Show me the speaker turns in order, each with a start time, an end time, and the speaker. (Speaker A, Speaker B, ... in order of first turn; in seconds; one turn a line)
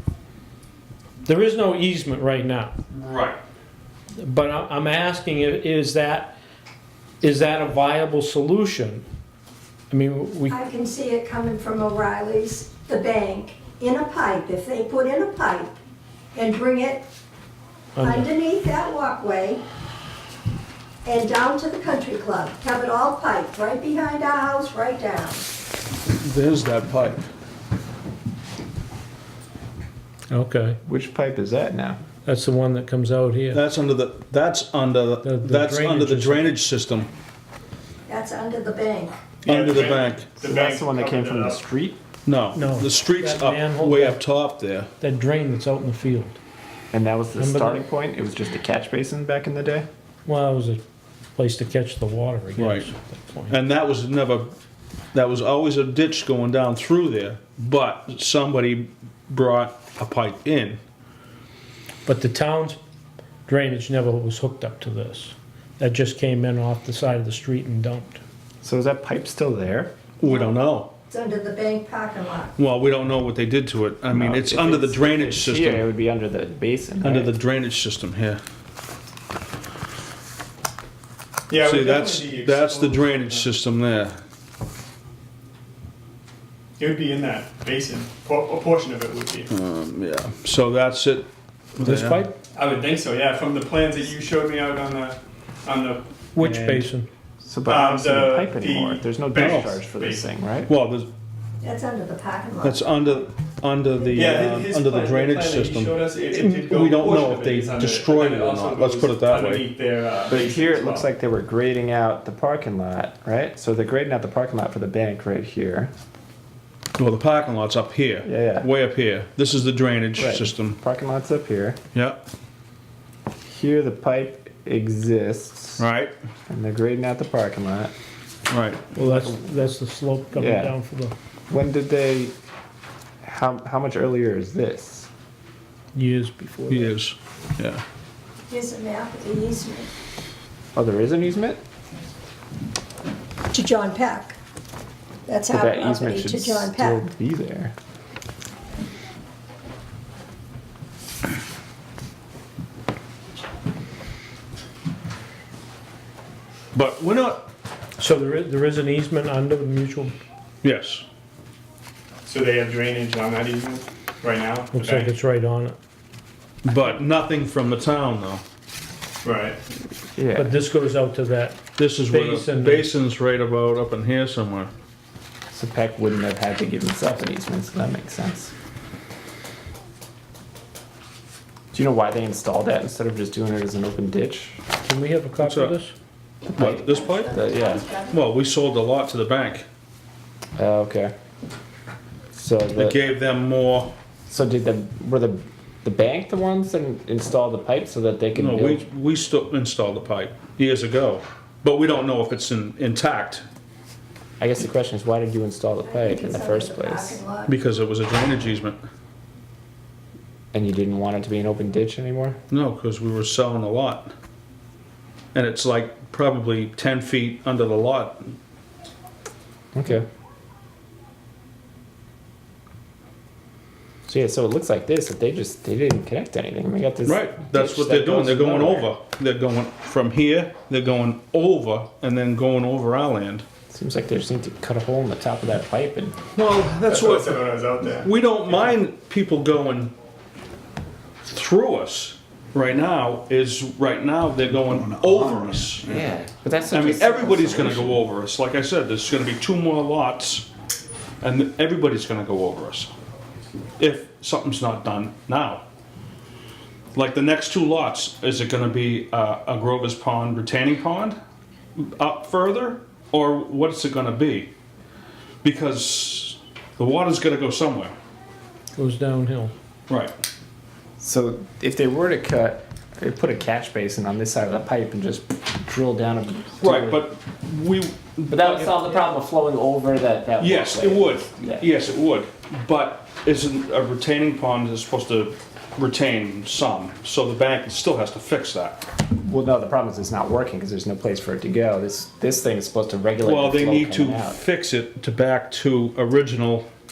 Speaker A: 1.2-2.7
Speaker B: 2.9-3.4
Speaker A: 4.2-6.3
Speaker A: 7.2-9.0
Speaker A: 9.9-10.6
Speaker C: 10.5-15.7
Speaker C: 16.3-17.1
Speaker A: 17.9-18.3
Speaker C: 18.0-19.6
Speaker C: 21.0-25.5
Speaker B: 26.1-27.2
Speaker A: 30.3-30.8
Speaker D: 30.8-32.0
Speaker A: 32.2-33.6
Speaker B: 33.5-37.1
Speaker A: 35.2-36.5
Speaker C: 38.1-39.1
Speaker B: 39.4-40.4
Speaker E: 39.5-41.6
Speaker D: 40.4-42.0
Speaker B: 42.2-44.9
Speaker A: 42.5-44.2
Speaker A: 45.0-46.4
Speaker D: 46.9-49.9
Speaker A: 47.3-47.8
Speaker A: 50.2-50.8
Speaker A: 51.4-53.6
Speaker B: 52.5-52.9
Speaker B: 53.5-54.5
Speaker B: 55.1-60.8
Speaker A: 62.0-62.8
Speaker A: 63.5-68.2
Speaker D: 68.6-69.9
Speaker B: 70.2-70.9
Speaker C: 70.2-70.5
Speaker C: 71.1-72.5
Speaker B: 72.6-75.8
Speaker D: 74.1-77.3
Speaker B: 77.0-78.4
Speaker E: 81.5-83.4
Speaker B: 81.5-84.2
Speaker E: 86.8-89.5
Speaker B: 89.5-92.2
Speaker A: 91.8-92.3
Speaker E: 92.5-96.9
Speaker A: 96.3-97.1
Speaker D: 97.4-100.7
Speaker E: 97.7-100.3
Speaker B: 99.3-99.7
Speaker B: 100.7-101.1
Speaker C: 101.6-103.2
Speaker B: 102.6-106.1
Speaker E: 104.1-111.1
Speaker C: 104.2-104.5
Speaker A: 106.3-106.7
Speaker B: 106.6-109.7
Speaker D: 110.3-115.9
Speaker B: 117.0-120.8
Speaker D: 118.2-118.7
Speaker D: 120.1-121.8
Speaker B: 121.9-122.2
Speaker D: 123.4-125.8
Speaker B: 125.8-126.1
Speaker D: 126.5-127.9
Speaker B: 128.5-128.9
Speaker A: 128.9-131.1
Speaker D: 129.0-129.3
Speaker D: 130.3-130.7
Speaker D: 131.5-132.3
Speaker D: 133.2-135.1
Speaker A: 135.9-136.9
Speaker B: 136.7-137.8
Speaker C: 138.5-139.9
Speaker D: 140.7-141.6
Speaker C: 143.5-144.3
Speaker C: 145.2-147.0
Speaker D: 145.5-147.7
Speaker B: 156.7-157.5
Speaker A: 158.0-160.2
Speaker B: 160.6-161.0
Speaker E: 162.2-165.1
Speaker A: 164.7-165.8
Speaker B: 166.6-168.4
Speaker E: 169.2-169.6
Speaker D: 170.2-170.6
Speaker A: 170.3-172.9
Speaker B: 171.7-174.7
Speaker D: 175.5-178.5
Speaker D: 181.7-184.6
Speaker A: 184.8-185.9
Speaker B: 185.4-185.7
Speaker D: 186.5-187.8
Speaker B: 186.6-187.3
Speaker C: 186.7-188.2
Speaker B: 188.1-189.6
Speaker D: 190.6-191.1
Speaker D: 192.3-193.0
Speaker B: 192.7-193.9
Speaker D: 194.3-198.8
Speaker B: 198.3-203.4
Speaker D: 204.4-207.2
Speaker C: 205.8-207.5
Speaker B: 207.5-208.8
Speaker D: 210.5-212.4
Speaker B: 212.5-214.1
Speaker B: 215.3-218.3
Speaker D: 219.7-220.0
Speaker D: 224.1-228.9
Speaker B: 227.0-233.4
Speaker D: 233.7-236.2
Speaker B: 236.3-237.4
Speaker E: 236.8-238.1
Speaker B: 238.0-239.9
Speaker B: 241.2-246.0
Speaker D: 245.8-248.0
Speaker B: 246.7-250.4
Speaker B: 251.2-252.9
Speaker B: 253.8-255.6
Speaker B: 256.9-261.1
Speaker B: 261.8-264.5
Speaker B: 265.4-267.9
Speaker A: 268.8-269.5
Speaker B: 269.9-270.1
Speaker D: 271.0-277.0
Speaker B: 276.6-278.9
Speaker D: 278.3-281.7
Speaker B: 280.4-288.8
Speaker D: 289.2-294.4
Speaker B: 293.2-296.6